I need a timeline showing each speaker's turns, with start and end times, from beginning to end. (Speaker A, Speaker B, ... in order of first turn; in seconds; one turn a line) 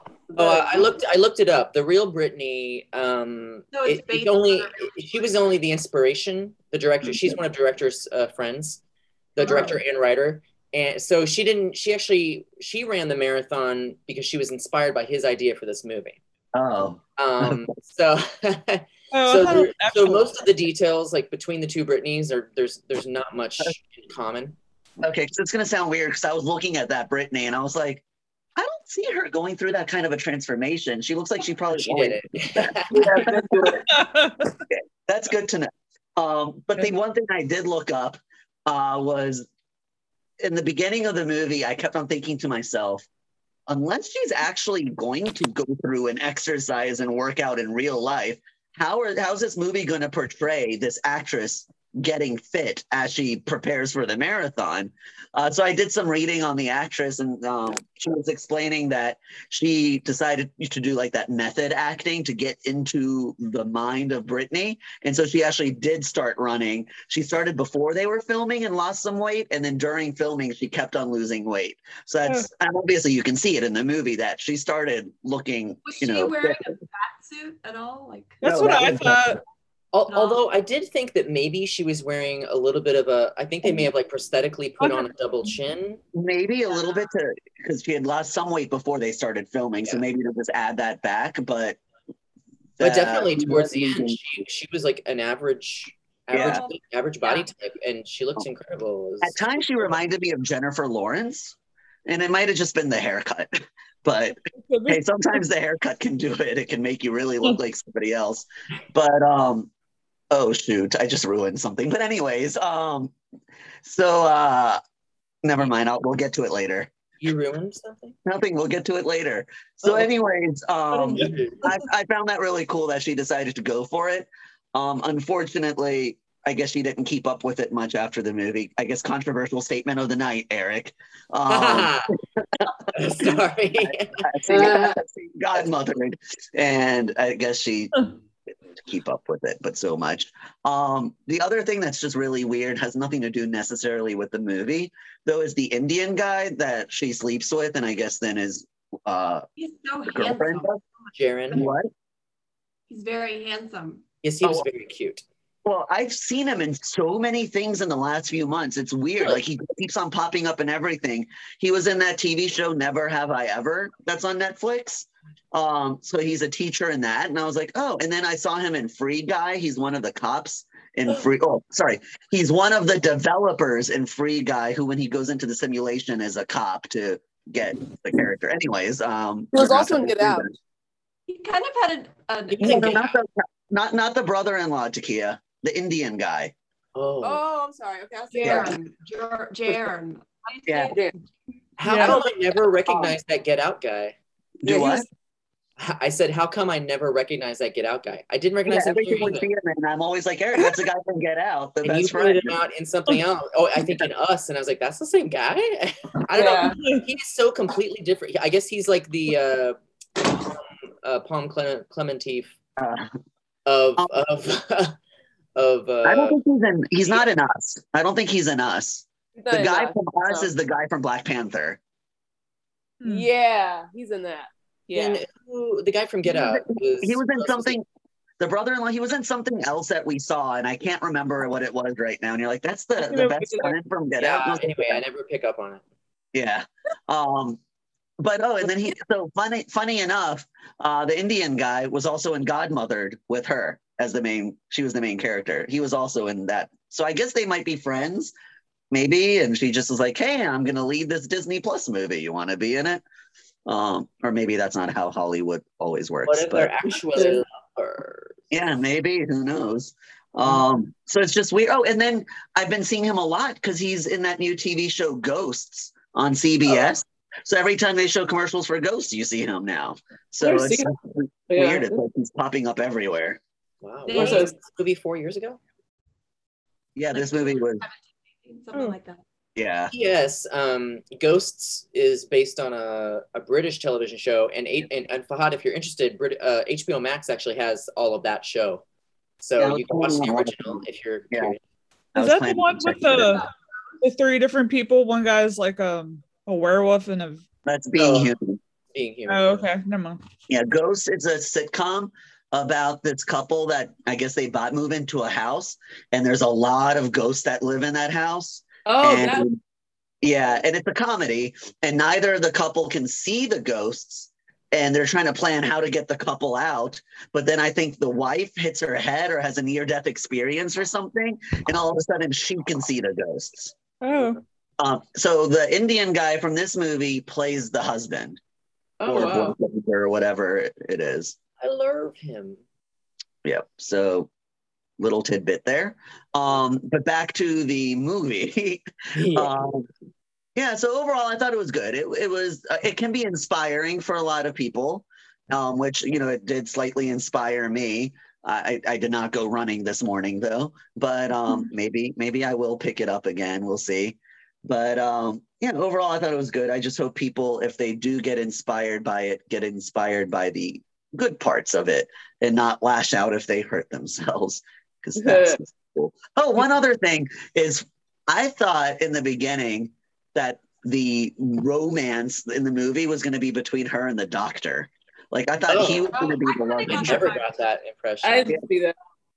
Speaker A: 0.3-0.6
Speaker B: 0.3-8.8
Speaker C: 3.7-5.0
Speaker D: 7.0-7.4
Speaker B: 9.3-16.2
Speaker D: 9.4-9.8
Speaker D: 16.5-17.6
Speaker B: 17.2-24.6
Speaker E: 19.1-20.3
Speaker D: 25.0-28.0
Speaker D: 28.6-33.8
Speaker B: 31.8-33.1
Speaker E: 33.2-34.5
Speaker D: 34.7-39.5
Speaker D: 40.4-43.1
Speaker D: 43.7-76.7
Speaker C: 75.8-78.9
Speaker E: 78.4-79.4
Speaker D: 78.4-79.2
Speaker B: 79.9-86.0
Speaker C: 80.1-80.4
Speaker E: 84.8-85.1
Speaker D: 86.1-91.8
Speaker D: 92.8-94.2
Speaker B: 92.8-99.9
Speaker D: 96.3-96.7
Speaker C: 96.3-97.5
Speaker D: 99.2-103.5
Speaker D: 104.0-109.7
Speaker E: 104.7-105.0
Speaker D: 110.3-113.1
Speaker D: 113.8-114.8
Speaker D: 115.4-116.9
Speaker B: 117.2-118.2
Speaker D: 118.3-132.0
Speaker B: 120.9-121.7
Speaker E: 121.1-121.7
Speaker B: 131.5-132.1
Speaker B: 132.9-134.2
Speaker D: 133.8-138.1
Speaker A: 134.5-135.0
Speaker D: 138.7-149.5
Speaker C: 149.6-150.7
Speaker D: 150.1-150.8
Speaker B: 151.1-151.7
Speaker D: 151.5-151.9
Speaker C: 152.9-154.0
Speaker B: 154.2-155.2
Speaker D: 155.7-180.5
Speaker A: 179.5-180.5
Speaker C: 181.3-183.2
Speaker D: 182.6-186.5
Speaker B: 186.9-187.4
Speaker A: 187.2-188.7
Speaker C: 188.3-191.1
Speaker D: 188.4-188.8
Speaker D: 190.7-190.9
Speaker B: 191.8-194.2
Speaker E: 191.8-192.2
Speaker A: 192.0-192.3
Speaker A: 192.9-193.2
Speaker D: 194.6-195.1
Speaker A: 194.7-195.1
Speaker B: 195.8-199.5
Speaker D: 198.7-202.6
Speaker B: 201.8-212.5
Speaker A: 206.3-206.8
Speaker E: 206.8-207.1
Speaker D: 212.8-213.2
Speaker B: 213.7-214.9
Speaker B: 215.6-216.4
Speaker D: 216.0-221.8
Speaker A: 219.4-220.5
Speaker E: 223.0-223.3
Speaker A: 223.1-225.2
Speaker B: 224.9-227.8
Speaker D: 226.3-227.8
Speaker D: 228.4-235.0
Speaker A: 233.0-233.8
Speaker B: 234.2-235.8
Speaker D: 236.3-237.6
Speaker D: 238.2-248.3
Speaker A: 238.7-238.9
Speaker D: 248.9-253.0
Speaker D: 253.7-256.7
Speaker B: 256.3-258.4
Speaker D: 258.5-273.4
Speaker A: 270.4-270.9
Speaker A: 271.5-271.9
Speaker B: 273.8-275.6
Speaker C: 274.1-274.5
Speaker A: 274.1-274.5
Speaker D: 277.0-277.9
Speaker C: 277.1-279.2
Speaker D: 279.6-279.9
Speaker B: 279.9-288.8
Speaker B: 289.4-291.6
Speaker D: 289.6-291.6
Speaker D: 292.1-293.4
Speaker E: 292.2-293.5
Speaker E: 294.0-297.4
Speaker D: 297.6-298.6
Speaker B: 297.9-298.3
Speaker B: 298.9-299.7
Speaker E: 299.3-300.2
Speaker D: 300.5-309.6
Speaker A: 308.9-309.5
Speaker D: 310.2-323.8
Speaker E: 324.0-324.4
Speaker D: 324.8-328.4
Speaker A: 329.0-329.6
Speaker D: 329.1-331.4
Speaker B: 331.6-332.6
Speaker D: 333.4-334.3
Speaker D: 335.0-339.9
Speaker B: 339.1-339.5
Speaker D: 340.6-377.3
Speaker A: 365.2-365.6
Speaker B: 375.7-376.1
Speaker C: 376.1-377.5
Speaker B: 376.9-378.6
Speaker A: 378.2-378.9